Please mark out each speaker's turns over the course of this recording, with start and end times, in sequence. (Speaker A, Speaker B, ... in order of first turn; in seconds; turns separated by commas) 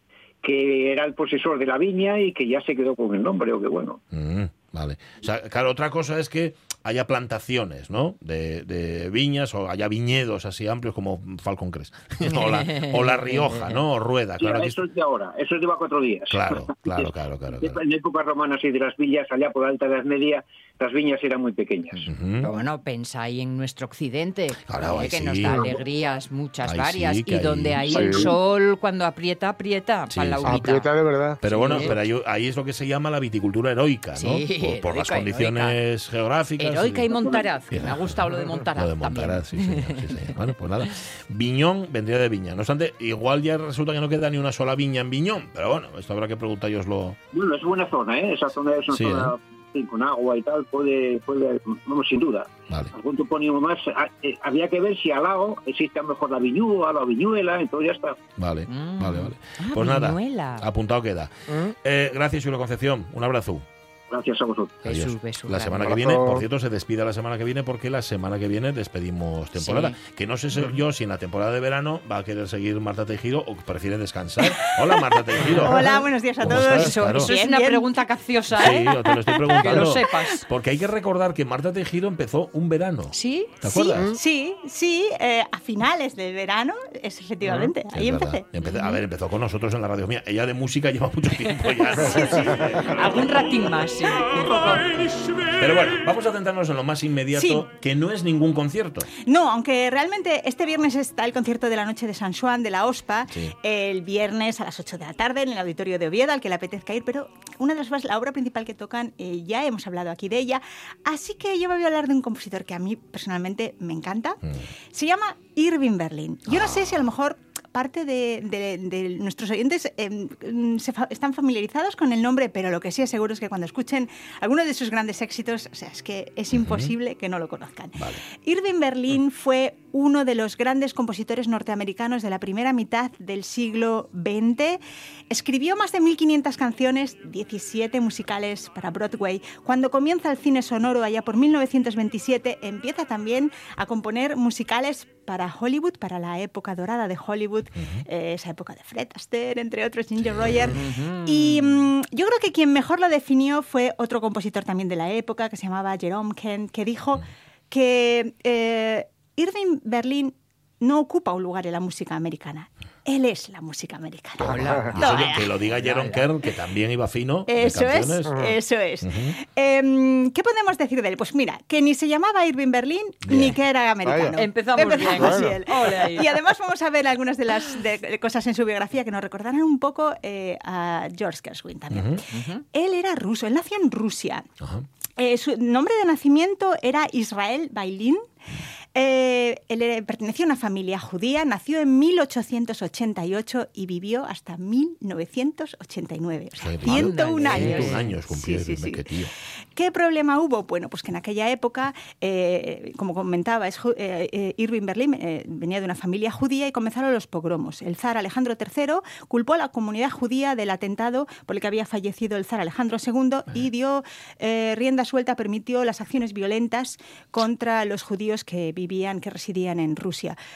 Speaker A: 0.4-4.0, Speaker B: 4.1-14.8, Speaker C: 12.3-13.8, Speaker A: 14.4-22.0, Speaker B: 16.3-17.8, Speaker B: 22.1-22.5, Speaker C: 22.4-30.9, Speaker B: 24.7-25.7, Speaker B: 26.6-28.3, Speaker D: 27.9-28.3, Speaker B: 30.1-30.6, Speaker D: 30.4-31.9, Speaker B: 31.4-37.1, Speaker C: 31.4-31.9, Speaker C: 34.1-35.8, Speaker C: 36.6-40.3, Speaker A: 37.1-37.4, Speaker B: 37.7-38.2, Speaker B: 38.8-47.2, Speaker A: 47.3-58.2, Speaker B: 48.9-49.3, Speaker B: 58.4-63.6, Speaker C: 58.7-60.6, Speaker A: 64.1-64.8, Speaker C: 64.8-65.9, Speaker B: 64.8-77.3, Speaker D: 65.9-66.4, Speaker C: 69.5-69.9, Speaker E: 74.5-78.0, Speaker C: 76.4-79.0, Speaker B: 78.5-84.2, Speaker E: 78.7-79.9, Speaker C: 79.5-80.4, Speaker C: 83.1-83.6, Speaker E: 83.6-88.5, Speaker B: 87.9-93.5, Speaker C: 88.6-89.0, Speaker E: 92.0-92.5, Speaker C: 92.9-94.9, Speaker B: 95.6-99.1, Speaker E: 97.3-97.6, Speaker E: 99.1-114.4, Speaker E: 114.9-134.8, Speaker B: 116.5-117.0, Speaker B: 126.5-126.9, Speaker E: 135.3-165.5, Speaker B: 147.8-148.0, Speaker B: 150.2-150.7, Speaker C: 150.7-151.8, Speaker B: 164.4-168.4, Speaker D: 164.5-165.0, Speaker C: 164.5-166.2, Speaker E: 167.5-184.5, Speaker B: 169.0-169.3, Speaker B: 173.3-173.5, Speaker D: 174.0-174.3, Speaker C: 174.3-176.3, Speaker D: 175.1-175.6, Speaker B: 181.9-182.2, Speaker C: 182.3-182.6, Speaker E: 185.2-188.2, Speaker E: 188.9-199.1, Speaker B: 196.6-199.3, Speaker C: 196.8-198.1, Speaker E: 199.7-220.3